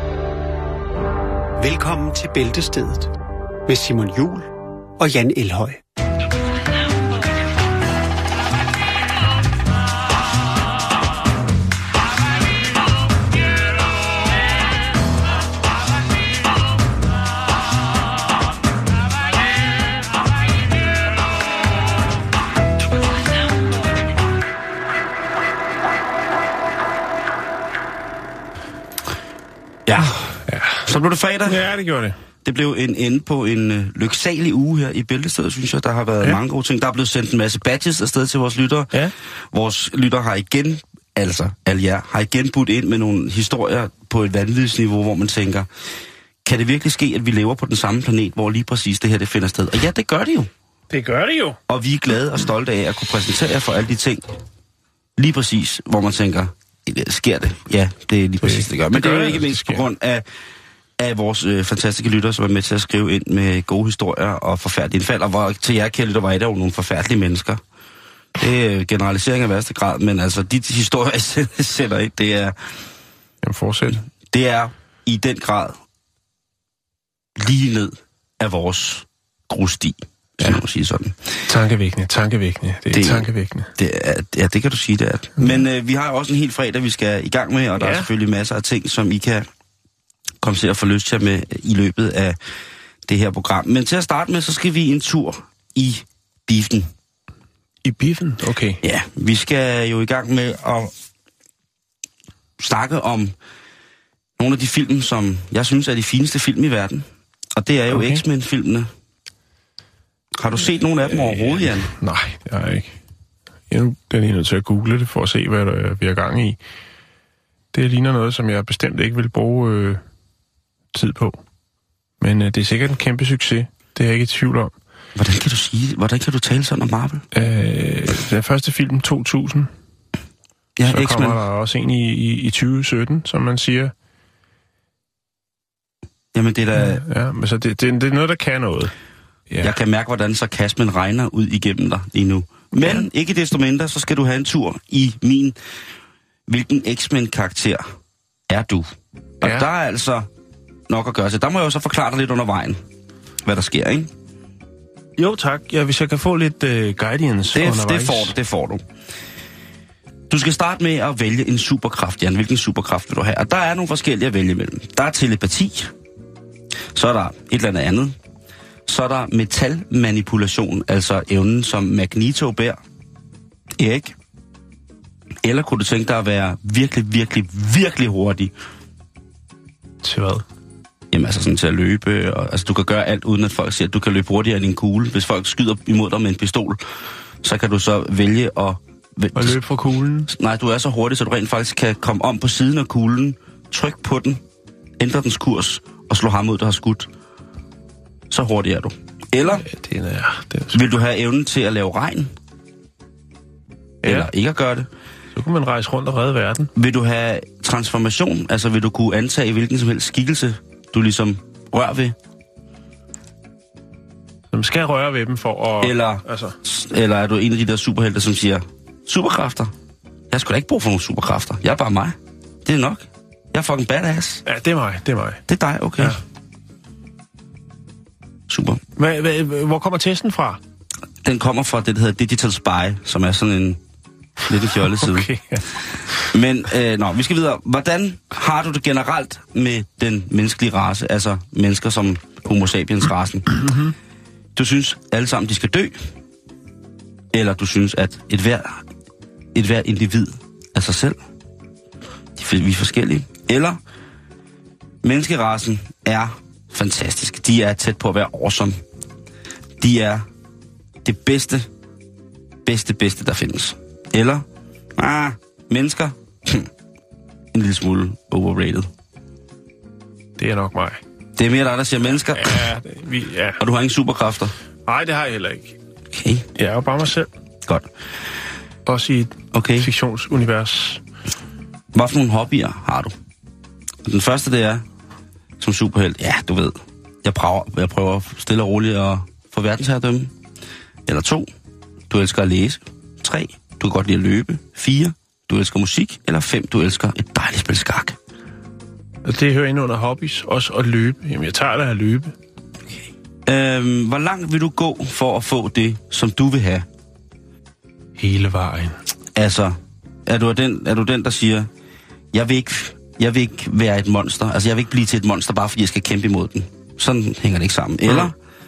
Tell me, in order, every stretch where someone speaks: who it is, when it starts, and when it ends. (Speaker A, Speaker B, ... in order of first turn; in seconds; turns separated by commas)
Speaker A: 1.6-3.1, Speaker A: 3.7-4.5, Speaker A: 5.0-5.8, Speaker B: 29.9-30.3, Speaker C: 30.1-30.9, Speaker B: 30.9-31.6, Speaker C: 31.4-32.2, Speaker B: 32.4-38.9, Speaker B: 39.5-45.7, Speaker B: 46.4-50.5, Speaker C: 50.9-51.6, Speaker B: 51.7-54.2, Speaker B: 55.2-60.2, Speaker C: 58.4-59.9, Speaker B: 61.0-67.6, Speaker B: 68.4-72.6, Speaker C: 73.4-74.0, Speaker B: 73.9-75.8, Speaker B: 77.4-81.4, Speaker C: 81.5-83.7, Speaker B: 82.9-89.5, Speaker C: 87.8-88.1, Speaker B: 90.4-92.4, Speaker B: 93.1-96.9, Speaker C: 97.8-98.8, Speaker B: 98.8-100.9, Speaker B: 102.6-103.3, Speaker B: 104.4-108.9, Speaker C: 107.9-108.2, Speaker B: 110.3-111.9, Speaker C: 111.1-113.0, Speaker C: 113.7-116.6, Speaker C: 117.7-120.0, Speaker C: 120.9-121.4, Speaker C: 122.2-124.7, Speaker B: 125.2-127.2, Speaker C: 127.3-129.7, Speaker B: 130.8-131.4, Speaker C: 130.8-133.9, Speaker B: 136.3-137.0, Speaker C: 136.8-138.9, Speaker C: 139.5-139.8, Speaker B: 139.6-145.6, Speaker C: 142.8-143.1, Speaker B: 146.5-147.8, Speaker B: 148.5-150.3, Speaker C: 149.4-149.7, Speaker B: 150.9-152.8, Speaker B: 153.4-154.1, Speaker C: 155.2-158.3, Speaker B: 157.5-158.8, Speaker B: 160.3-165.9, Speaker B: 166.9-168.2, Speaker B: 168.9-172.8, Speaker B: 173.8-174.2, Speaker B: 175.4-178.5, Speaker C: 180.0-180.4, Speaker B: 181.1-186.8, Speaker B: 187.4-189.6, Speaker C: 189.3-190.3, Speaker B: 190.3-194.4, Speaker B: 195.0-197.1, Speaker B: 198.3-199.7, Speaker C: 199.6-200.8, Speaker B: 200.7-202.3, Speaker C: 204.0-204.3, Speaker B: 204.1-204.9, Speaker C: 205.3-206.7, Speaker B: 206.8-212.2, Speaker C: 214.5-216.6, Speaker B: 215.8-219.7, Speaker B: 220.3-224.4, Speaker C: 224.4-225.4, Speaker B: 225.5-226.2, Speaker B: 228.5-228.8, Speaker C: 229.0-230.6, Speaker B: 231.2-233.8, Speaker B: 234.5-235.3, Speaker C: 234.9-236.3, Speaker B: 236.2-243.7, Speaker C: 243.5-243.9, Speaker B: 244.6-246.1, Speaker B: 247.3-248.8, Speaker B: 249.5-251.2, Speaker B: 252.4-253.8, Speaker B: 255.0-258.8, Speaker B: 259.8-260.2, Speaker B: 261.0-261.7, Speaker B: 262.6-264.4, Speaker B: 265.0-266.7, Speaker B: 267.5-268.9, Speaker C: 270.4-271.0, Speaker B: 271.4-272.7, Speaker C: 272.3-273.6, Speaker B: 273.6-274.5, Speaker C: 274.9-275.8, Speaker B: 276.1-276.5, Speaker C: 276.6-277.3, Speaker B: 277.6-277.9, Speaker C: 278.9-281.0, Speaker B: 279.5-279.9, Speaker B: 281.9-283.1, Speaker B: 284.1-284.8, Speaker B: 285.6-290.3, Speaker B: 291.1-291.5, Speaker B: 292.1-298.2, Speaker C: 299.2-302.3, Speaker B: 303.5-306.9, Speaker C: 308.2-309.0, Speaker B: 309.4-311.7, Speaker B: 312.3-318.4